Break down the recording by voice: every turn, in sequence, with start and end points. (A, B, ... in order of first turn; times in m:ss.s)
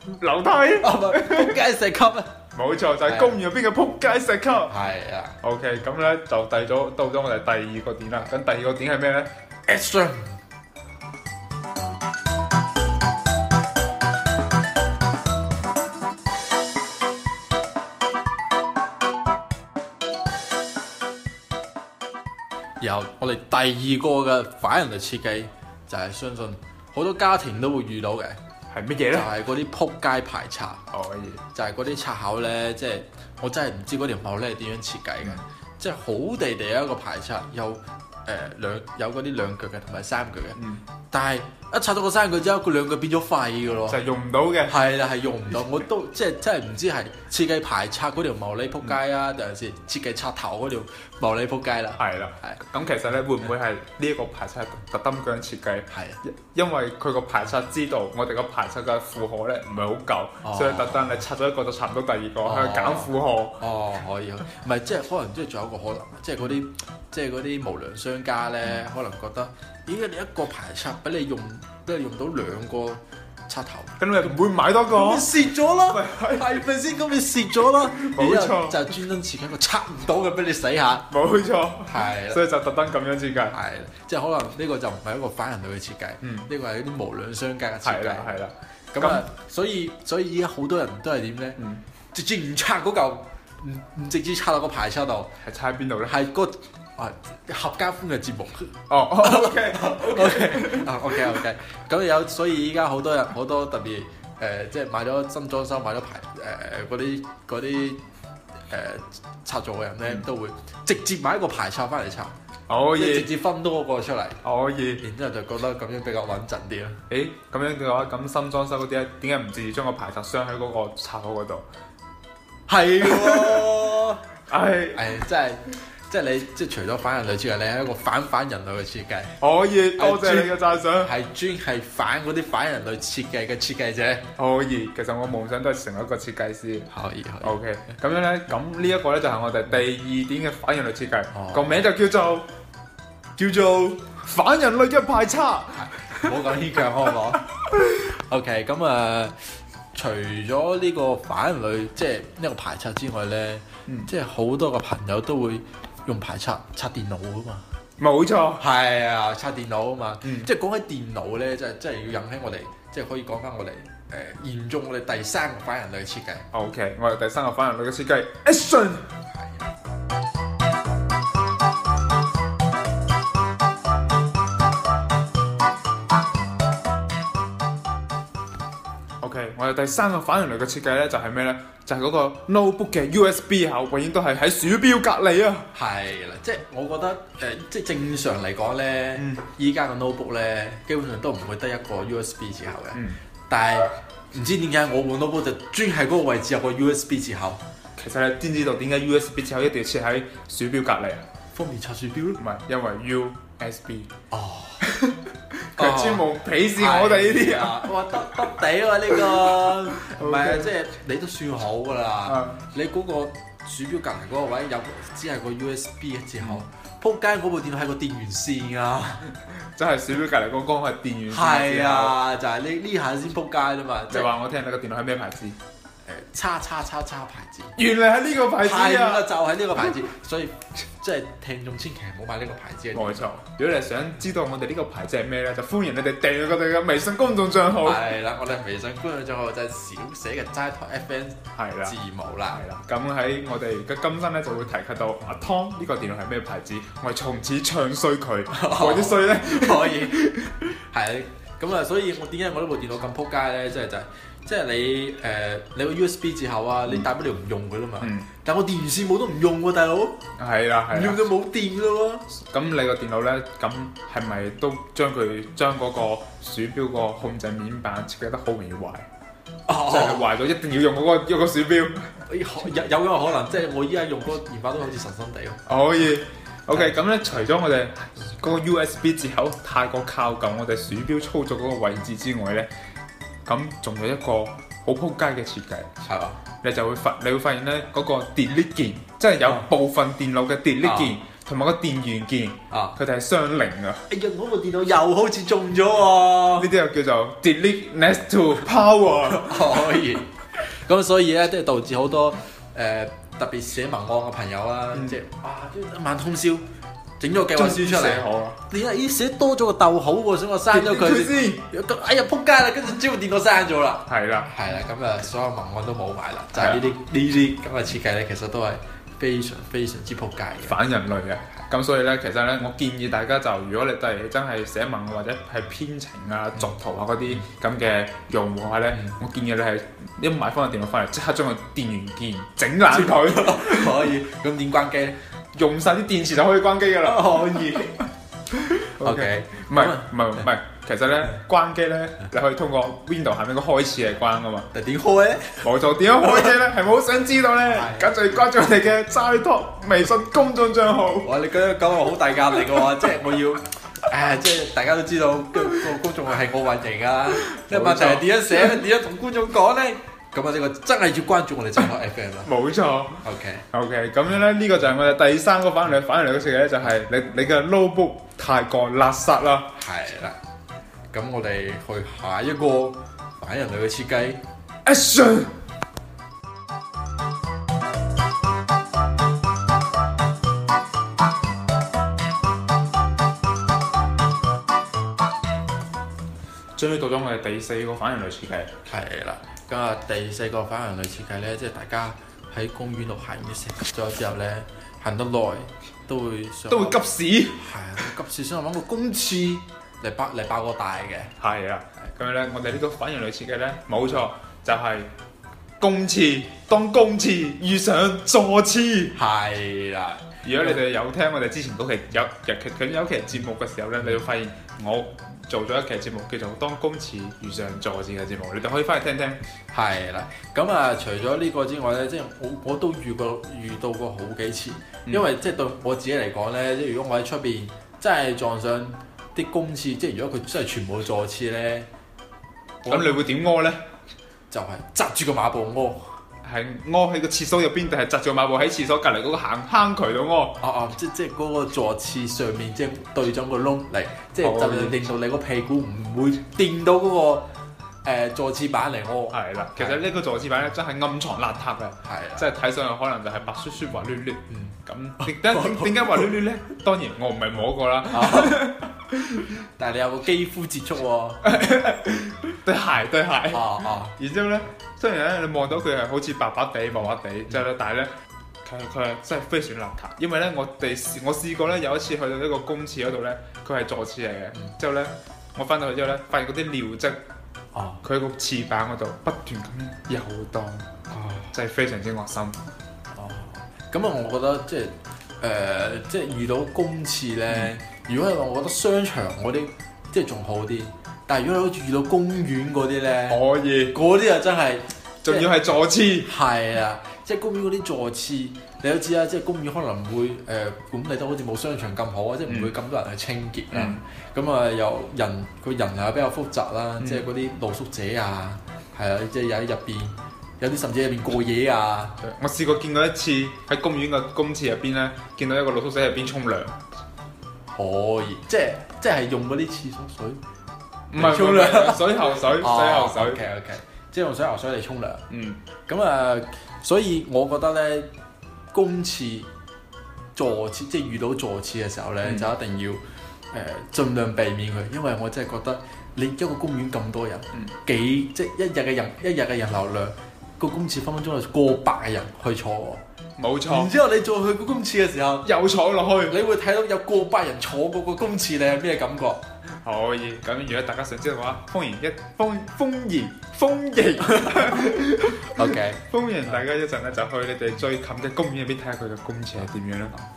0:00.2-0:01.6 A
0:00.8-0:02.3 B
0:02.6-0:04.8 A
0:03.1-0:03.4 B
0:04.7-0:05.4 B
0:05.4-0:09.3 A
0:09.7-0:10.4 B
0:22.8-0:28.4 B
0:28.7-0:29.3 A
0:29.1-0:30.8 B
0:30.9-0:31.4 A
0:31.5-0:44.0 B
0:40.6-0:40.8 A
0:43.9-0:44.8 A
0:44.7-0:52.6 B
0:52.0-1:03.6 A
0:55.9-0:56.2 B
1:00.4-1:01.1 B
1:02.4-1:14.4 B
1:14.0-1:15.3 A
1:14.9-1:21.1 B
1:15.9-1:16.6 A
1:17.9-1:18.9 A
1:21.1-1:23.6 A
1:21.9-1:22.4 B
1:23.5-1:28.4 B
1:26.2-1:26.5 A
1:27.8-1:29.2 A
1:28.9-1:31.6 B
1:31.6-1:31.8 A
1:32.1-1:35.4 B
1:35.4-1:36.2 A
1:36.0-1:48.0 B
1:38.9-1:41.4 A
1:48.7-1:52.3 B
1:52.7-1:53.3 A
1:52.9-1:54.4 B
1:54.4-1:55.0 A
1:55.0-1:57.0 B
1:57.1-2:01.7 A
2:02.7-2:04.2 B
2:03.0-2:03.8 A
2:04.5-2:05.1 A
2:04.9-2:09.4 B
2:09.4-2:11.1 A
2:10.0-2:14.3 B
2:14.4-2:16.9 A
2:16.9-2:17.6 B
2:17.4-2:22.5 A
2:21.3-2:21.8 B
2:23.4-2:24.0 B
2:24.2-2:26.3 A
2:25.8-2:29.4 B
2:29.9-2:37.6 B
2:38.0-2:38.6 A
2:38.6-2:46.5 B
2:40.2-2:40.5 A
2:46.5-2:49.1 A
2:49.3-2:49.6 B
2:59.2-3:05.7 A
3:05.7-3:17.6 B
3:09.2-3:09.4 A
3:18.0-3:21.3 A
3:21.5-3:22.4 B
3:22.4-3:24.1 A
3:24.3-3:24.9 B
3:24.8-3:27.9 A
3:25.8-3:39.3 B
3:29.1-3:30.7 A
3:32.3-3:32.6 A
3:39.5-3:42.2 A
3:41.3-3:44.3 B
3:44.1-3:45.6 A
3:46.0-3:47.8 B
3:47.8-3:49.3 A
3:48.6-3:53.3 B
3:52.9-3:58.1 A
3:57.8-4:02.6 B
4:01.6-4:02.0 A
4:02.5-4:10.7 A
4:08.5-4:20.3 B
4:18.0-4:18.3 A
4:20.4-4:21.3 A
4:20.9-4:22.3 B
4:22.3-4:29.1 A
4:29.7-4:30.3 B
4:29.9-4:32.1 A
4:32.3-4:35.6 B
4:35.7-4:42.7 A
4:36.7-4:37.0 B
4:43.5-4:45.9 A
4:46.0-4:46.4 B
4:46.6-4:54.1 A
4:50.8-4:51.2 B
4:52.7-4:53.0 B
4:54.1-4:56.7 B
4:56.5-5:00.0 A
4:59.3-5:06.7 B
5:04.9-5:05.2 A
5:07.2-5:20.8 B
5:07.5-5:08.6 A
5:10.7-5:11.6 A
5:14.1-5:14.5 A
5:16.6-5:16.8 A
5:20.6-5:34.0 A
5:28.9-5:29.2 B
5:32.9-5:35.2 B
5:35.5-5:38.1 A
5:37.0-5:38.0 B
5:38.6-5:44.7 A
5:39.0-5:40.1 B
5:44.7-5:46.6 B
5:45.6-5:51.3 A
5:47.6-5:48.2 B
5:51.2-6:02.5 B
5:57.3-5:58.8 A
6:02.4-6:09.7 A
6:03.2-6:03.6 B
6:09.8-6:10.4 B
6:11.1-6:14.4 B
6:14.8-6:15.5 A
6:26.8-6:28.7 A
6:28.9-6:37.0 B
6:36.7-6:37.7 A
6:37.5-6:41.3 B
6:41.4-6:45.1 A
6:45.8-6:49.2 A
6:49.2-6:50.8 B
6:50.4-6:59.4 A
6:59.7-7:11.9 B
7:12.8-7:13.2 B
7:12.9-7:13.8 A
7:14.5-7:16.1 B
7:16.4-7:20.6 A
7:20.6-7:27.5 B
7:24.4-7:25.0 A
7:28.0-7:30.0 B
7:29.3-7:39.5 A
7:32.0-7:32.5 B
7:34.5-7:36.0 B
7:38.1-7:38.7 B
7:39.8-7:41.6 B
7:41.4-7:48.1 A
7:43.5-7:44.2 B
7:48.6-7:57.2 A
7:57.7-7:58.0 B
7:58.0-8:00.9 A
8:01.1-8:01.5 B
8:01.5-8:02.6 A
8:03.1-8:15.7 B
8:13.3-8:14.0 A
8:15.2-8:16.3 A
8:16.2-8:32.2 B
8:22.5-8:22.7 A
8:23.7-8:24.0 A
8:27.0-8:27.3 A
8:32.2-8:36.8 A
8:37.7-8:40.4 B
8:41.1-8:43.4 A
8:41.2-8:45.3 B
8:45.3-8:45.6 A
8:45.9-8:48.1 B
8:48.7-8:49.5 B
8:50.4-8:53.0 B
8:52.2-8:52.5 A
8:53.5-9:03.0 B
9:03.4-9:03.9 A
9:03.7-9:05.5 B
9:05.4-9:06.4 A
9:06.3-9:09.4 B
9:09.8-9:20.2 A
9:15.5-9:16.0 B